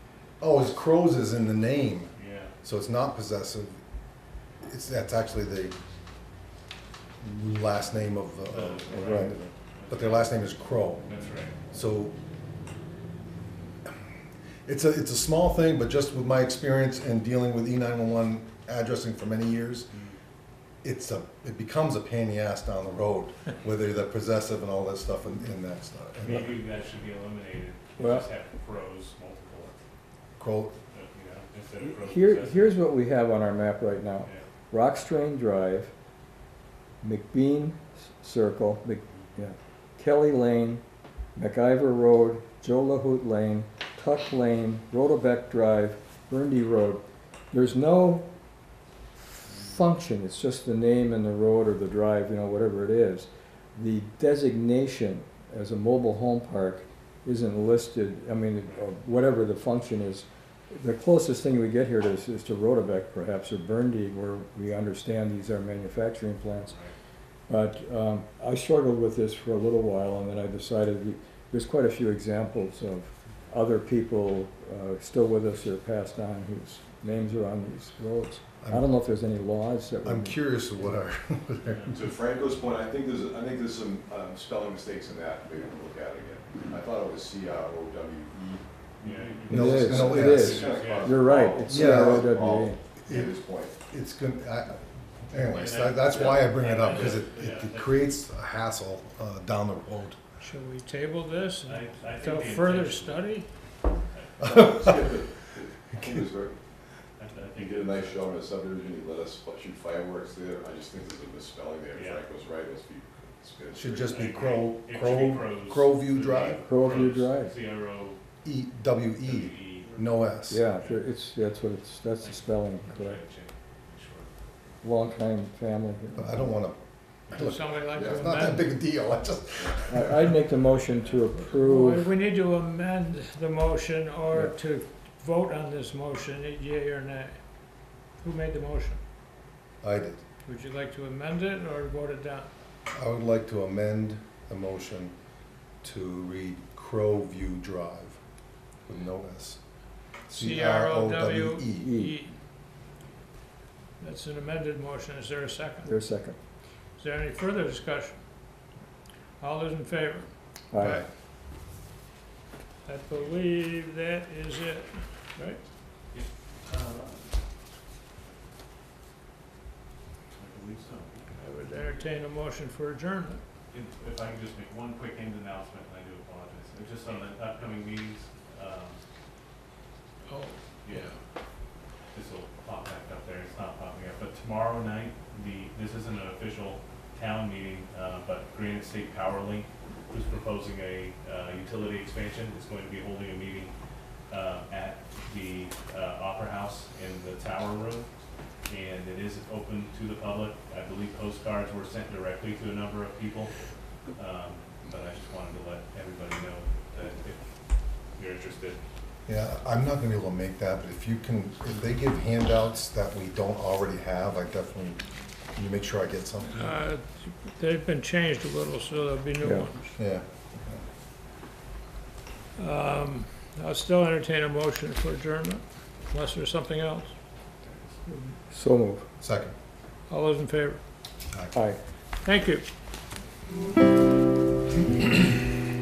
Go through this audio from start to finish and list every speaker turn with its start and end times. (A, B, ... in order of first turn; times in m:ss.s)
0:00.4-0:03.8 A
0:02.2-0:02.5 B
0:04.6-0:05.8 A
0:07.2-0:09.4 A
0:08.5-0:10.4 B
0:09.9-0:11.1 A
0:11.0-0:11.6 B
0:11.7-0:12.2 A
0:14.7-0:19.9 A
0:19.9-0:20.2 B
0:20.8-0:26.6 A
0:26.2-0:29.8 B
0:28.0-0:28.3 C
0:30.4-0:30.8 A
0:30.9-0:32.7 B
0:31.8-0:35.9 C
0:37.0-0:40.8 C
0:41.4-0:48.3 C
0:49.4-1:06.8 C
1:06.6-1:06.9 B
1:07.5-1:20.4 C
1:18.6-1:18.9 A
1:20.0-1:22.1 A
1:21.9-1:33.8 D
1:29.0-1:31.3 B
1:29.5-1:30.7 A
1:29.5-1:32.8 C
1:31.7-1:32.2 A
1:33.0-1:40.2 A
1:35.4-1:38.2 B
1:40.4-1:43.5 E
1:41.6-1:43.4 B
1:44.4-1:45.4 A
1:44.4-1:46.6 D
1:47.2-1:48.4 B
1:47.6-1:54.4 D
1:51.9-1:52.2 B
1:53.7-1:56.6 A
1:54.0-1:58.2 B
1:56.6-1:57.6 C
1:58.4-2:00.6 A
1:59.2-1:59.9 B
2:00.5-2:03.2 C
2:00.7-2:01.0 B
2:02.2-2:04.3 B
2:04.8-2:06.5 C
2:06.2-2:10.5 A
2:07.4-2:08.7 E
2:07.9-2:08.2 D
2:09.6-2:09.9 D
2:09.8-2:12.1 C
2:10.7-2:11.3 B
2:11.5-2:17.6 E
2:18.2-2:19.0 E
2:19.8-2:20.2 A
2:20.5-2:22.5 E
2:22.9-2:25.1 A
2:25.8-2:28.2 A
2:28.9-2:29.6 A
2:30.3-2:31.9 A
2:30.3-2:32.4 E
2:31.8-2:32.2 C
2:34.0-2:35.9 E
2:35.8-2:36.4 C
2:37.0-2:38.2 E
2:39.4-2:41.0 E
2:40.7-2:41.0 C
2:40.8-2:41.1 A
2:42.8-2:45.6 E
2:46.1-2:47.4 B
2:50.3-2:51.3 B
2:51.3-2:52.0 D
2:51.7-2:53.4 E
2:53.7-2:59.0 B
3:00.3-3:00.6 E
3:00.8-3:01.2 B
3:02.1-3:13.7 B
3:14.3-3:18.1 B
3:18.7-3:23.6 B
3:24.2-3:27.5 B
3:28.1-3:28.8 B
3:29.3-3:35.0 A
3:35.6-3:36.8 A
3:36.5-3:40.0 E
3:39.4-3:39.7 C
3:40.0-3:40.8 A
3:42.6-3:47.1 E
3:48.1-3:49.1 C
3:49.2-3:49.5 A
3:50.1-3:50.8 E
3:51.3-3:51.6 A
3:51.5-3:51.8 C
3:52.2-3:52.7 E